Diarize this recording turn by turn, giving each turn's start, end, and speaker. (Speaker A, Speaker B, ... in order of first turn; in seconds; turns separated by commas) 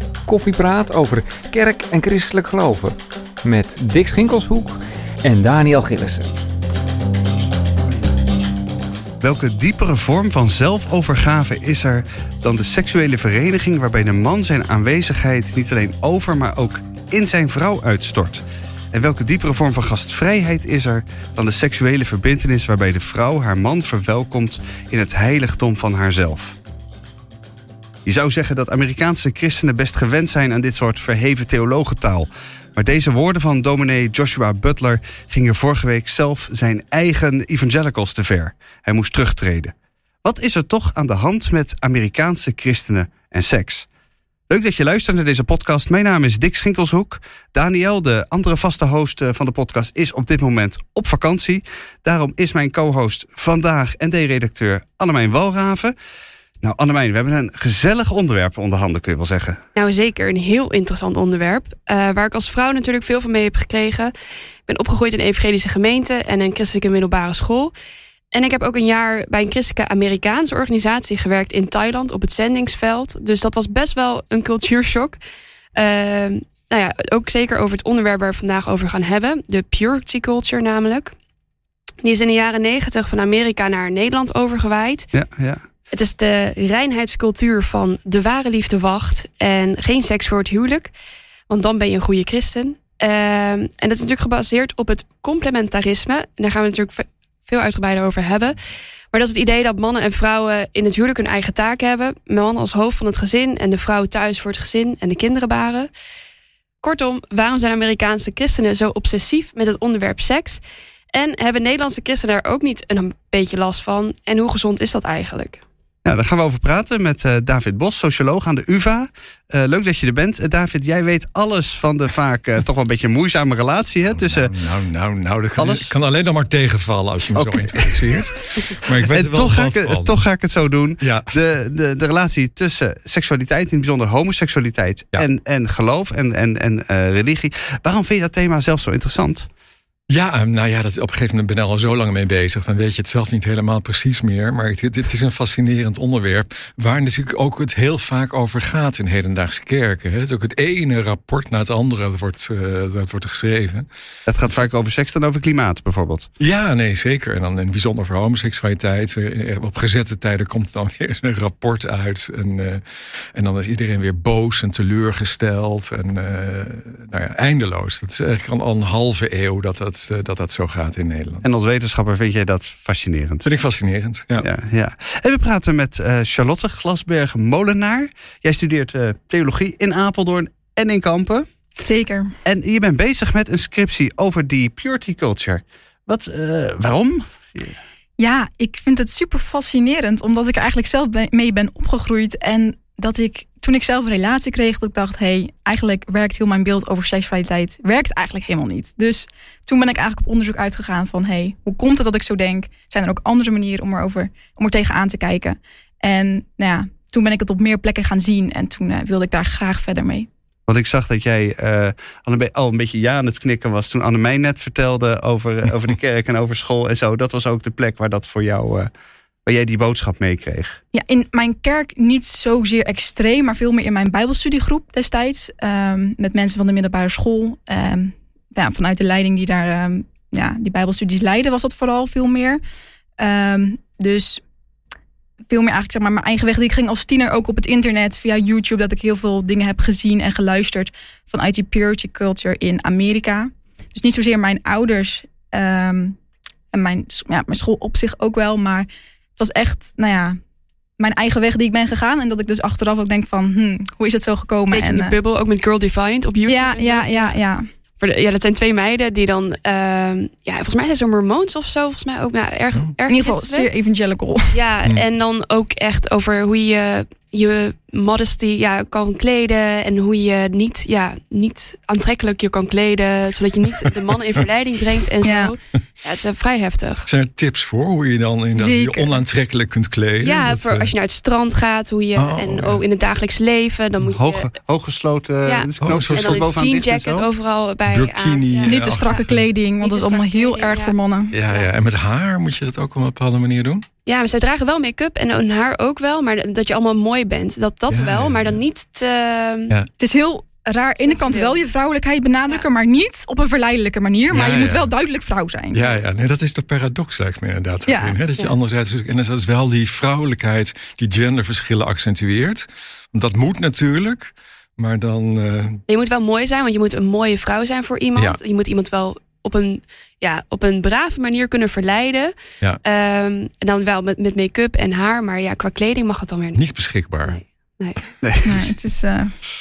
Speaker A: 0.3-6.3, Speaker B: 9.2-26.6, Speaker B: 28.1-43.9, Speaker B: 44.5-56.0, Speaker B: 56.6-59.6, Speaker C: 59.8-64.1, Speaker C: 64.7-67.7, Speaker C: 68.3-75.2, Speaker C: 75.8-81.1, Speaker C: 82.0-85.1, Speaker B: 85.1-85.6, Speaker C: 85.9-90.9, Speaker C: 91.5-98.6, Speaker C: 99.1-105.9, Speaker C: 106.8-110.6, Speaker C: 111.1-115.6, Speaker B: 116.0-124.5, Speaker D: 124.1-130.1, Speaker B: 125.6-125.9, Speaker B: 127.3-128.2, Speaker B: 128.8-139.5, Speaker D: 131.0-131.3, Speaker D: 140.1-153.9, Speaker B: 154.3-156.3, Speaker D: 156.4-162.8, Speaker D: 163.3-171.4, Speaker B: 171.4-173.5, Speaker D: 173.4-174.5, Speaker B: 174.4-181.5, Speaker E: 181.8-182.4, Speaker B: 182.4-187.8, Speaker E: 188.2-210.3, Speaker B: 210.7-218.9, Speaker B: 219.5-220.8, Speaker E: 220.9-232.6, Speaker E: 233.2-234.4, Speaker E: 235.5-246.2, Speaker E: 246.7-250.4, Speaker E: 251.0-255.2, Speaker C: 254.7-257.4, Speaker E: 256.5-257.7, Speaker C: 258.0-263.7, Speaker E: 263.1-264.6, Speaker C: 264.5-277.1, Speaker E: 275.2-275.5, Speaker D: 277.1-280.9, Speaker E: 278.5-279.2, Speaker C: 280.2-284.5, Speaker D: 282.2-282.8, Speaker B: 284.1-287.3, Speaker C: 285.4-289.2, Speaker D: 285.8-286.6, Speaker D: 287.9-289.4, Speaker E: 288.7-291.4, Speaker C: 289.8-290.9, Speaker D: 291.3-293.9, Speaker C: 291.5-291.7, Speaker C: 294.1-299.8, Speaker D: 297.9-298.6, Speaker E: 300.0-305.8, Speaker C: 301.0-301.6, Speaker D: 304.3-304.9, Speaker D: 305.7-315.8, Speaker E: 307.9-308.2, Speaker C: 315.9-326.6, Speaker D: 326.6-327.4, Speaker C: 327.2-328.0, Speaker B: 328.2-328.6, Speaker E: 328.4-329.3